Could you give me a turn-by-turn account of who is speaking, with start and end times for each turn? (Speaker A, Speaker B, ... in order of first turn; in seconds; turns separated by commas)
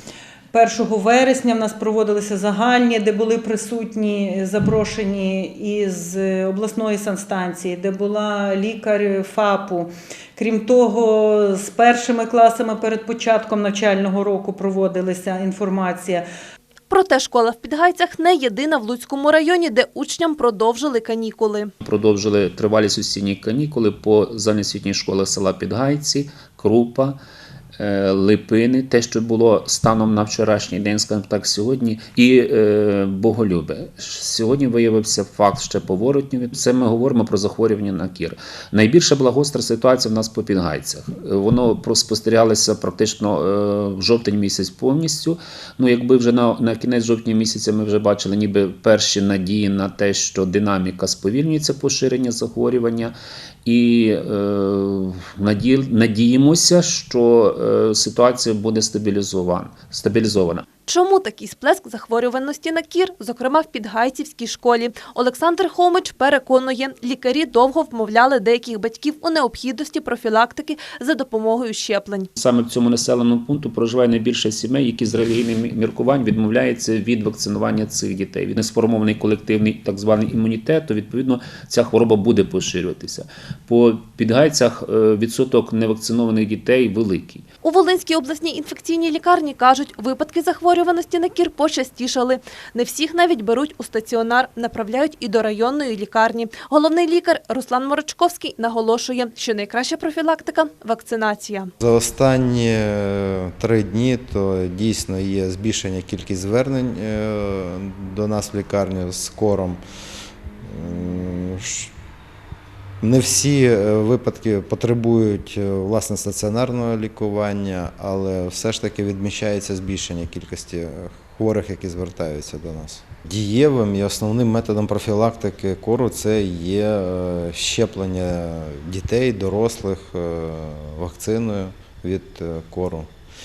Speaker A: 0.5-16.2, Speaker B: 16.9-21.7, Speaker C: 21.8-27.2, Speaker C: 27.8-60.6, Speaker B: 60.9-72.3, Speaker C: 72.3-87.5, Speaker B: 87.6-101.7, Speaker D: 101.8-109.8, Speaker D: 110.6-111.9, Speaker D: 113.0-133.1